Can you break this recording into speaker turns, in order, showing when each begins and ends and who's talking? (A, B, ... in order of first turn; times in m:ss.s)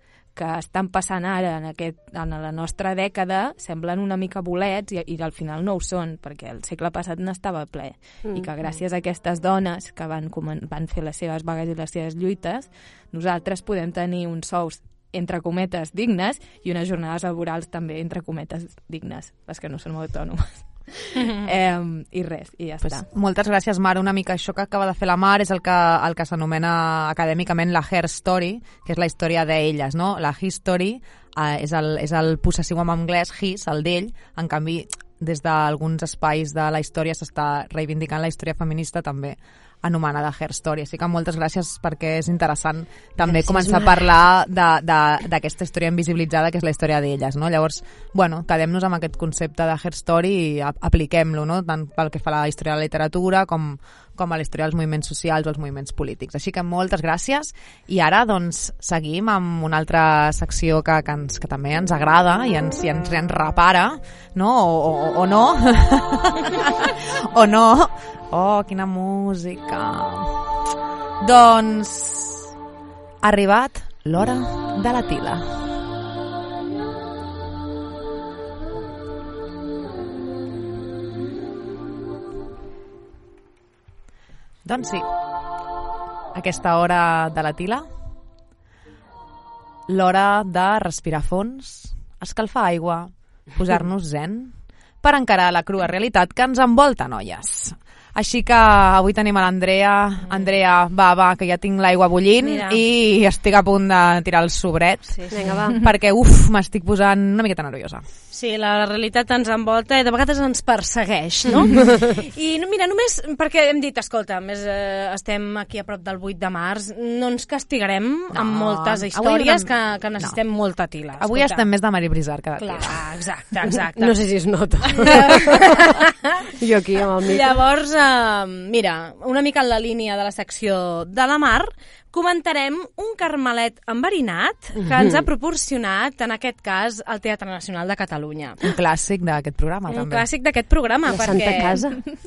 0:00.3-0:23.1 A
0:08.2-0:08.5 B
0:22.8-1:10.5 C
0:43.2-0:44.0 B
1:11.2-1:12.5 C
1:13.2-1:15.6 C
1:24.6-1:25.0 C
1:26.3-1:27.8 C
1:29.9-1:48.0 C
1:40.2-1:40.5 D
1:42.4-1:42.8 D
1:45.1-1:45.6 D
1:45.3-1:45.8 B
1:48.3-2:01.7 D
1:58.3-2:00.4 C
2:01.2-2:03.0 C
2:02.6-2:04.2 D
2:03.9-2:05.9 B
2:04.8-2:06.5 D
2:06.6-2:07.5 B
2:07.2-2:18.6 D
2:14.8-2:15.3 B
2:18.6-2:20.2 C
2:19.9-2:21.8 D
2:21.0-2:22.0 B